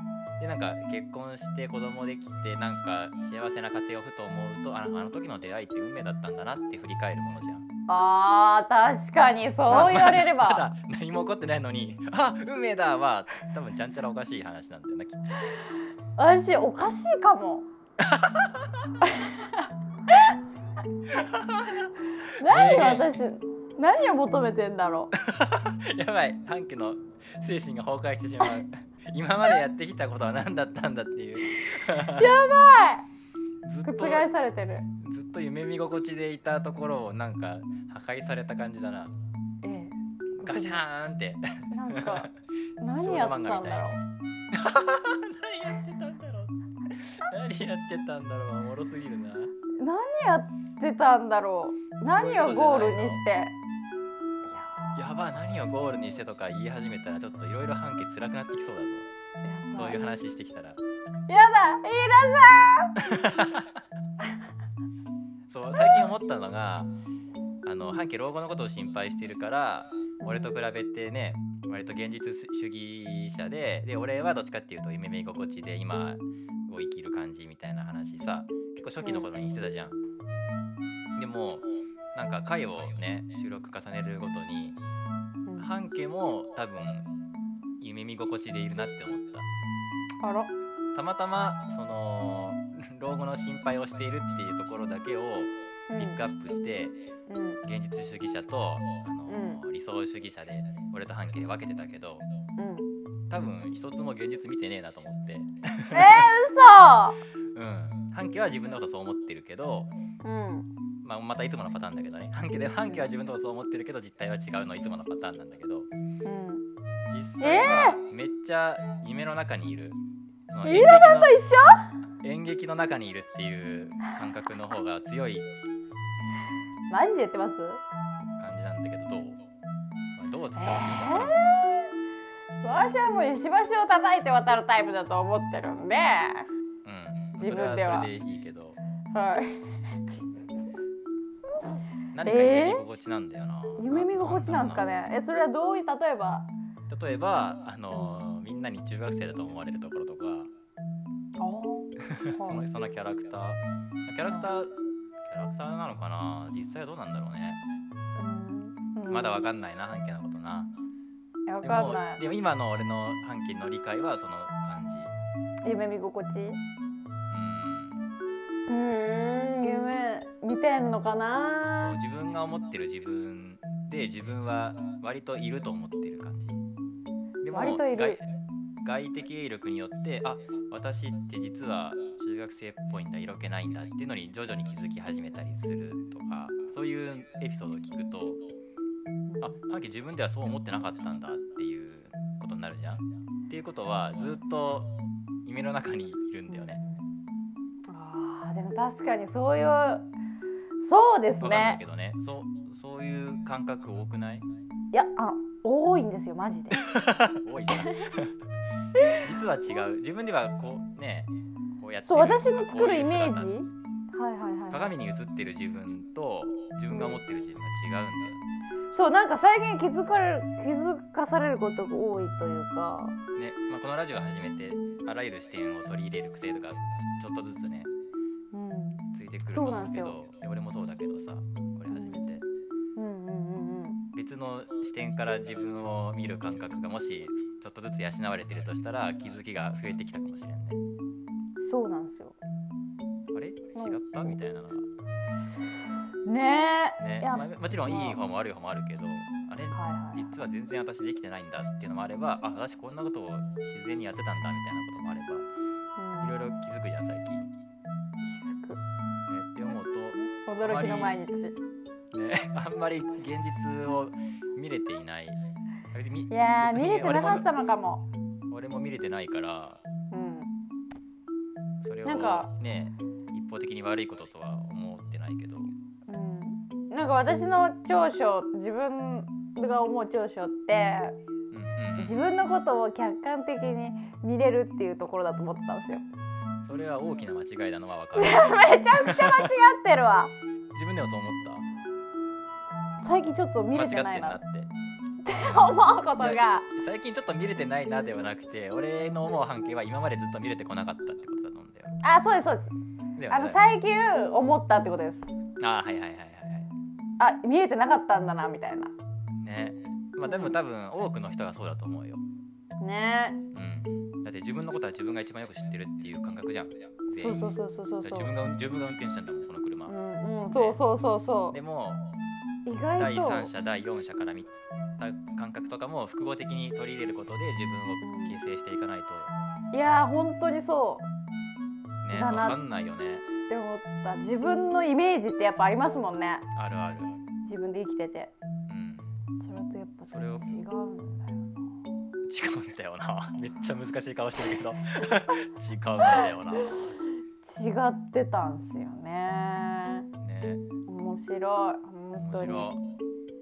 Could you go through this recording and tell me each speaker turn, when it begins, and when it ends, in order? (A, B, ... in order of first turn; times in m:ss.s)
0:00.4-0:07.6 A
0:07.9-0:10.7 B
0:09.6-0:15.6 A
0:16.2-0:17.6 B
0:18.0-0:18.8 A
0:19.0-0:20.3 B
0:21.1-0:23.1 A
0:22.4-0:25.1 B
0:25.1-0:32.3 A
0:31.8-0:33.0 B
0:33.6-0:34.3 A
0:33.8-0:34.9 B
0:35.0-0:39.1 A
0:39.6-0:40.8 B
0:40.4-0:42.3 A
0:41.7-0:42.3 B
0:42.8-0:44.0 B
0:43.0-0:44.0 A
0:44.5-0:49.5 A
0:49.8-0:53.5 B
0:52.0-0:53.2 A
0:54.5-0:55.0 B
0:54.9-0:59.1 A
0:59.4-1:00.0 B
0:59.7-1:00.8 A
1:01.3-1:03.0 B
1:03.0-1:03.7 A
1:05.5-1:06.9 A
1:07.6-1:20.0 A
1:10.2-1:10.5 B
1:19.0-1:19.3 B
1:21.2-1:24.8 A
1:25.6-1:27.1 A
1:27.8-1:29.5 A
1:30.2-1:30.5 B
1:30.9-1:37.0 A
1:35.9-1:36.2 B
1:37.3-1:37.6 B
1:37.6-1:42.3 A
1:39.3-1:39.6 B
1:42.6-1:42.9 B
1:43.3-1:46.3 A
1:45.9-1:47.2 B
1:47.5-1:49.9 A
1:50.2-1:50.7 B
1:51.0-1:55.9 A
1:56.2-1:56.6 B
1:57.1-2:01.3 A
1:57.4-1:58.0 B
2:00.6-2:01.9 B
2:02.2-2:05.6 A
2:06.9-2:07.8 B
2:08.4-2:09.4 A
2:10.2-2:11.5 A
2:10.6-2:11.8 B
2:12.6-2:16.5 B
2:16.8-2:18.8 A
2:17.4-2:18.1 B
2:19.1-2:19.6 B
2:22.1-2:24.8 A
2:22.2-2:22.8 B
2:23.8-2:26.5 B
2:26.9-2:30.5 A
2:27.9-2:28.2 B
2:31.4-2:32.6 B
2:32.0-2:34.7 A
2:35.2-2:37.6 A
2:38.2-2:39.5 B
2:39.1-2:40.7 A
2:41.5-2:42.2 B
2:41.6-2:45.1 A
2:45.6-2:46.6 B
2:47.3-2:48.0 A
2:48.7-2:52.0 B
2:51.8-2:56.6 A
2:57.4-2:58.2 A
2:57.5-2:58.2 B
2:58.8-3:08.4 A
3:09.4-3:14.9 A
3:15.4-3:16.8 A
3:16.5-3:17.0 B
3:17.9-3:20.1 B
3:20.8-3:21.8 B
3:21.4-3:24.4 A
3:24.9-3:27.0 B
3:26.8-3:28.4 A
3:29.2-3:33.6 A
3:32.0-3:34.9 B
3:34.7-3:38.4 A
3:36.9-3:37.2 B
3:38.9-3:43.2 B
3:43.4-3:47.9 A
3:48.5-3:50.1 B
3:49.1-3:52.4 A
3:51.9-3:52.2 B
3:53.0-3:54.0 B
3:54.1-4:00.8 A
4:01.6-4:02.4 B
4:03.3-4:04.9 A
4:03.7-4:04.4 B
4:06.2-4:08.2 B
4:07.0-4:15.4 A
4:09.7-4:10.3 B
4:16.0-4:16.3 B
4:16.2-4:17.5 A
4:18.2-4:18.8 B
4:19.3-4:21.1 A
4:20.4-4:21.6 B
4:22.1-4:25.4 A
4:25.9-4:27.4 A
4:26.3-4:28.0 B
4:28.5-4:29.8 A
4:30.1-4:30.5 B
4:31.8-4:35.7 A
4:32.0-4:32.5 B
4:36.1-4:41.2 B
4:41.5-4:42.3 A
4:42.0-4:46.0 B
4:46.6-4:49.5 A
4:48.1-4:50.3 B
4:50.7-4:51.6 A
4:53.0-4:54.4 B
4:53.7-4:54.7 A
4:55.2-4:56.6 B
4:55.4-5:01.9 A
5:02.0-5:02.7 B
5:03.2-5:03.6 A
5:03.3-5:05.3 B
5:05.6-5:06.7 A
5:07.2-5:08.9 B
5:09.4-5:12.2 A
5:10.2-5:10.5 B
5:12.8-5:13.4 B
5:13.5-5:19.9 A
5:17.2-5:18.3 B
5:19.9-5:21.6 B
5:20.5-5:20.8 A
5:21.5-5:22.1 A
5:22.6-5:23.5 B
5:23.0-5:29.3 A
5:28.0-5:28.3 B
5:29.7-5:31.0 B
5:32.0-5:33.3 A
5:32.1-5:32.6 B
5:33.5-5:36.4 B
5:36.5-5:37.1 A
5:37.4-5:38.3 B
5:38.7-5:39.1 A
5:39.4-5:41.6 B
5:40.1-5:40.5 A
5:42.2-5:46.9 A
5:46.2-5:46.8 B
5:47.4-5:50.1 B
5:50.2-5:50.6 A
5:50.9-5:52.7 B
5:52.2-5:52.8 A